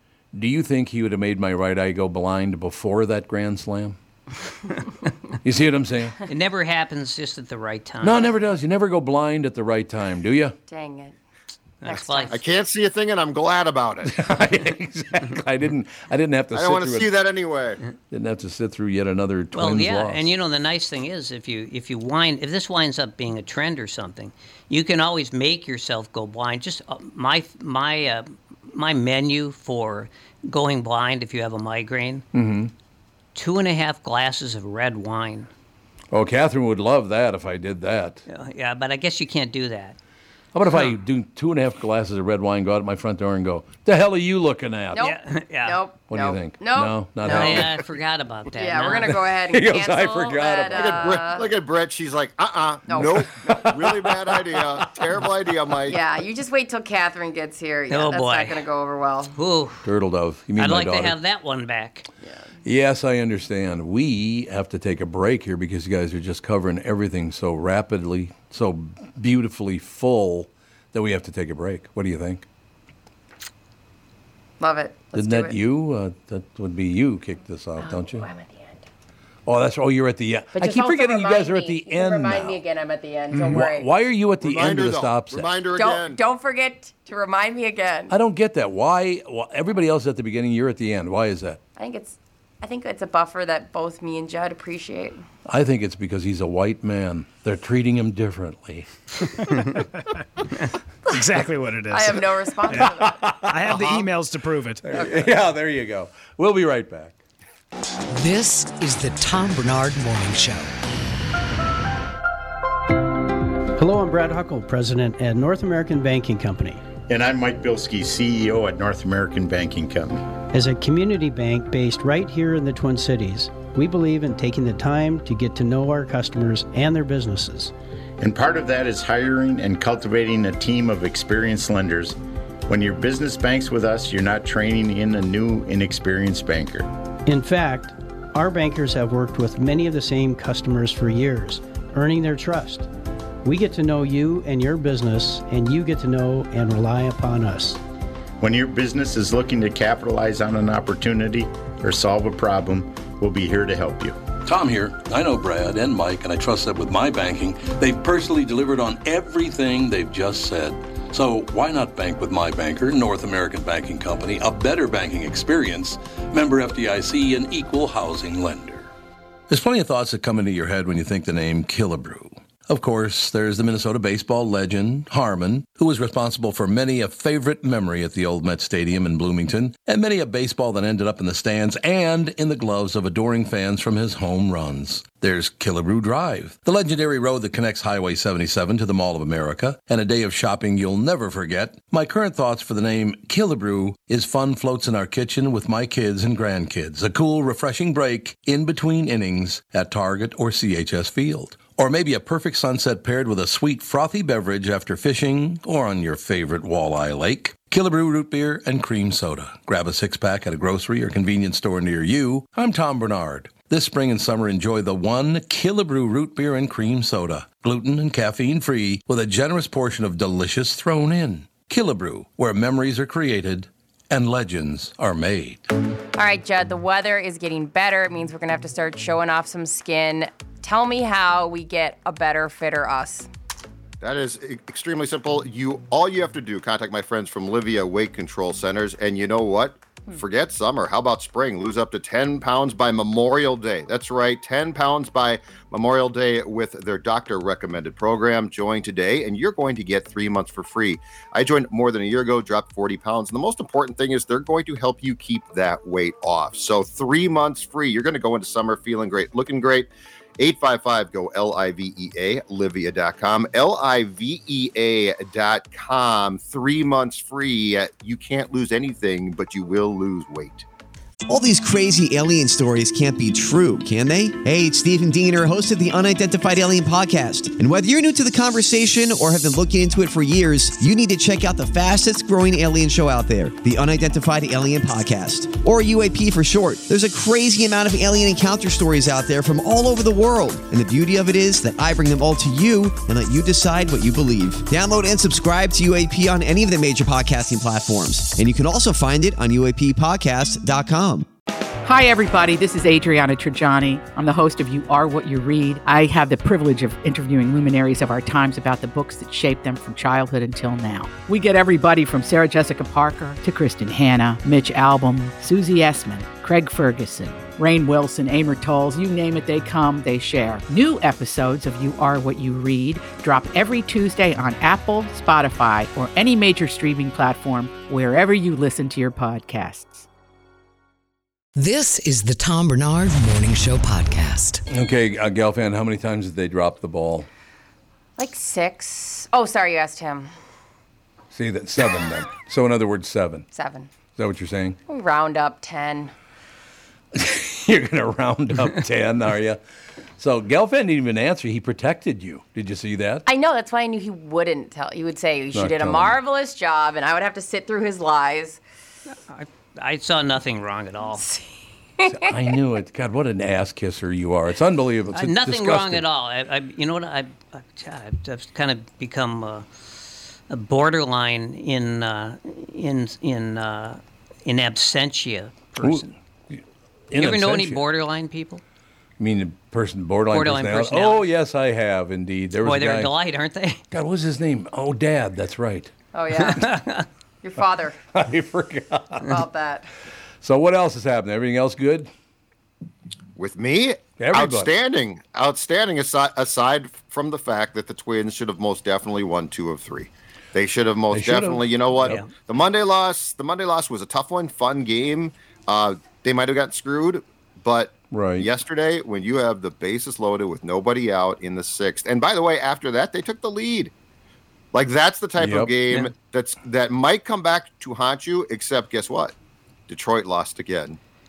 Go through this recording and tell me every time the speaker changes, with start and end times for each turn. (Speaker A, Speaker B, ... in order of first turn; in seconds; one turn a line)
Speaker A: 0.3-4.0
Speaker A: 5.4-6.2
Speaker B: 6.3-8.2
Speaker A: 8.0-10.6
Speaker C: 10.7-11.1
Speaker B: 11.8-12.4
Speaker C: 11.9-12.4
Speaker D: 12.3-14.2
Speaker A: 14.1-17.1
Speaker D: 16.5-17.8
Speaker A: 18.1-20.3
Speaker B: 19.5-32.2
Speaker A: 32.3-32.7
Speaker B: 33.4-35.5
Speaker A: 36.1-38.2
Speaker B: 38.3-40.0
Speaker A: 40.5-45.0
Speaker C: 44.9-47.8
Speaker B: 45.0-45.8
Speaker A: 46.1-47.8
Speaker B: 47.3-49.1
Speaker C: 48.5-51.5
Speaker A: 48.9-51.2
Speaker D: 50.7-56.0
Speaker C: 52.9-53.2
Speaker A: 53.0-55.3
Speaker C: 55.9-59.4
Speaker B: 57.9-58.6
Speaker B: 59.3-59.9
Speaker A: 59.9-61.2
Speaker B: 60.6-62.1
Speaker A: 62.6-72.5
Speaker C: 74.6-75.6
Speaker A: 75.2-78.3
Speaker C: 77.8-78.8
Speaker A: 79.5-82.6
Speaker C: 80.5-83.9
Speaker A: 83.3-85.5
Speaker D: 84.4-86.2
Speaker C: 85.8-88.1
Speaker A: 88.1-91.6
Speaker C: 91.8-95.2
Speaker A: 95.5-98.9
Speaker E: 101.1-102.8
Speaker C: 101.9-103.2
Speaker A: 102.7-103.7
Speaker E: 103.5-105.0
Speaker D: 103.7-104.0
Speaker A: 104.8-107.2
Speaker F: 108.1-110.7
Speaker G: 113.8-116.8
Speaker H: 117.1-120.2
Speaker G: 120.5-127.7
Speaker H: 128.2-132.2
Speaker H: 132.7-136.9
Speaker G: 137.3-142.9
Speaker G: 143.4-147.8
Speaker H: 148.4-154.2
Speaker A: 154.4-168.9
Speaker A: 169.5-225.7
Speaker C: 226.2-233.3
Speaker D: 234.0-270.7
Speaker I: 271.3-301.3
Speaker J: 301.8-330.1
Speaker F: 331.6-334.6
Speaker A: 334.7-337.3
Speaker C: 338.2-340.3
Speaker A: 341.3-343.5
Speaker C: 343.5-343.9
Speaker A: 344.2-344.8
Speaker C: 344.9-346.1
Speaker A: 347.1-349.6
Speaker A: 350.2-353.2
Speaker C: 353.3-358.6
Speaker A: 355.5-356.2
Speaker B: 359.1-361.2
Speaker C: 361.2-361.4
Speaker C: 362.0-362.4
Speaker A: 362.1-366.0
Speaker B: 365.1-376.1
Speaker A: 375.8-377.8
Speaker B: 377.2-378.6
Speaker A: 379.2-383.1
Speaker B: 380.3-381.3
Speaker B: 382.6-383.8
Speaker A: 383.9-385.9
Speaker C: 386.1-386.8
Speaker B: 386.4-387.1
Speaker C: 387.4-388.0
Speaker A: 388.1-389.3
Speaker C: 389.2-389.9
Speaker A: 390.4-392.1
Speaker D: 393.4-413.9
Speaker A: 394.2-394.7
Speaker A: 401.1-402.2
Speaker A: 408.1-408.5
Speaker D: 414.7-419.3
Speaker A: 415.4-415.7
Speaker D: 419.9-421.0